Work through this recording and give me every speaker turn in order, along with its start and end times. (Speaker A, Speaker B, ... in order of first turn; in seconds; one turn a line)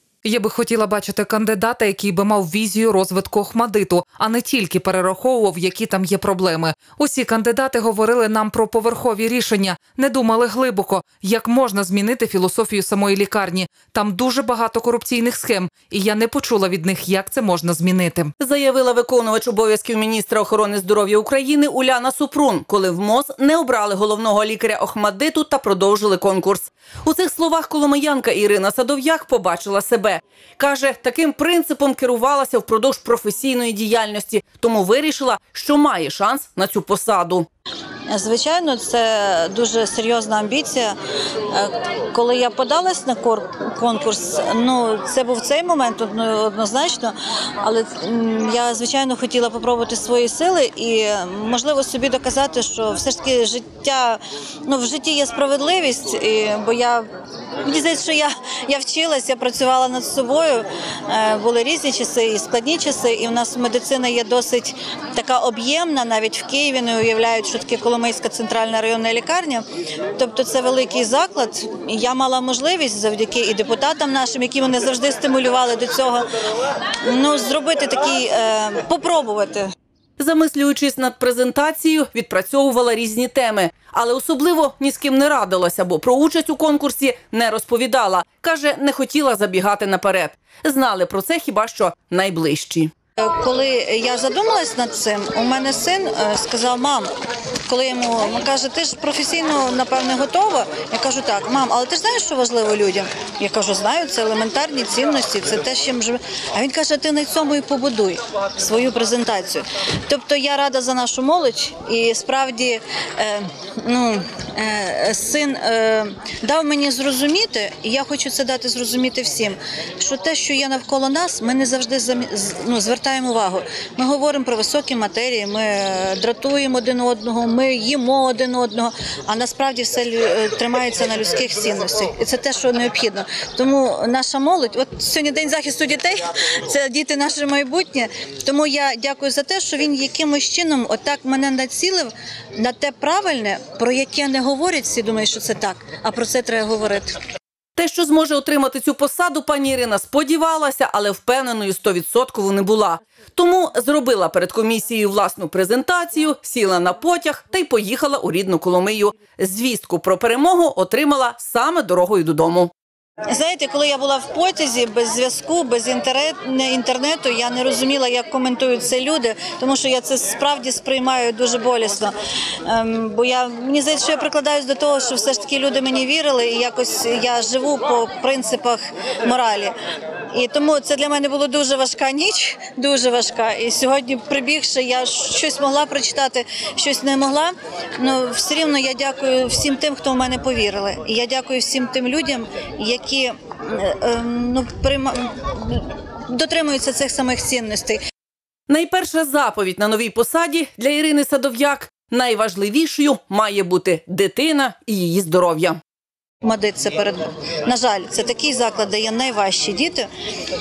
Speaker A: 0.2-18.3
Speaker B: 18.4-37.5
Speaker C: 38.1-40.9
Speaker C: 41.5-57.0
Speaker C: 57.6-69.6
Speaker C: 70.2-76.2
Speaker C: 77.0-79.7
Speaker B: 80.2-92.9
Speaker C: 93.2-97.1
Speaker C: 97.7-147.2
Speaker B: 147.8-162.7
Speaker C: 163.3-172.1
Speaker C: 172.7-179.7
Speaker C: 180.3-198.0
Speaker B: 198.7-205.8
Speaker C: 206.4-210.1